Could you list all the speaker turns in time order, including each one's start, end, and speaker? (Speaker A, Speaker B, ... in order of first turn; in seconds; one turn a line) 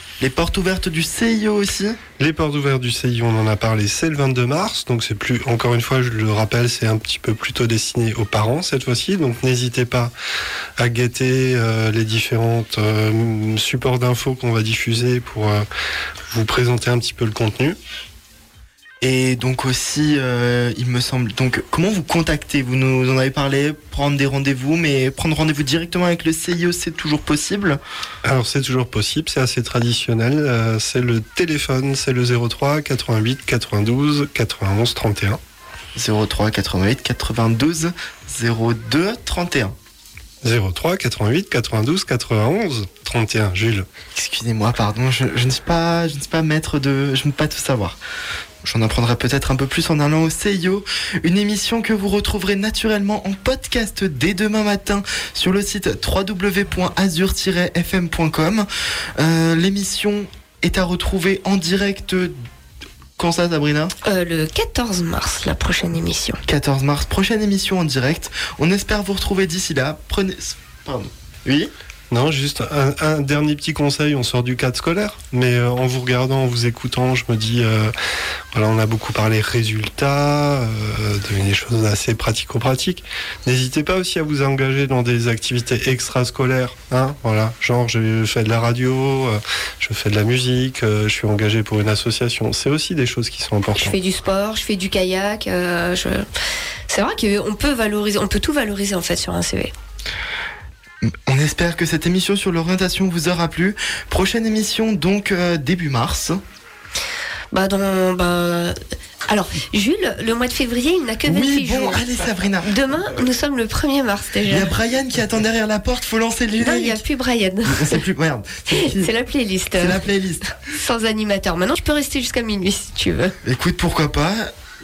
Speaker A: 0.2-2.0
Speaker B: 2.2-10.1
Speaker B: 10.8-15.7
Speaker B: 16.3-17.8
Speaker A: 19.0-27.8
Speaker B: 28.2-35.4
Speaker A: 36.0-39.8
Speaker B: 40.4-43.9
Speaker A: 44.1-48.0
Speaker A: 48.6-62.4
Speaker A: 63.2-63.9
Speaker C: 64.0-66.4
Speaker A: 66.5-71.7
Speaker B: 72.1-77.9
Speaker B: 78.5-94.0
Speaker C: 93.8-96.3
Speaker C: 96.9-99.7
Speaker A: 101.0-106.4
Speaker C: 107.5-112.1
Speaker A: 111.3-113.2
Speaker C: 112.7-114.7
Speaker A: 114.5-117.0
Speaker C: 116.6-118.0
Speaker A: 117.7-119.1
Speaker C: 118.7-120.0
Speaker A: 119.8-120.4
Speaker C: 120.6-123.3
Speaker A: 123.4-124.5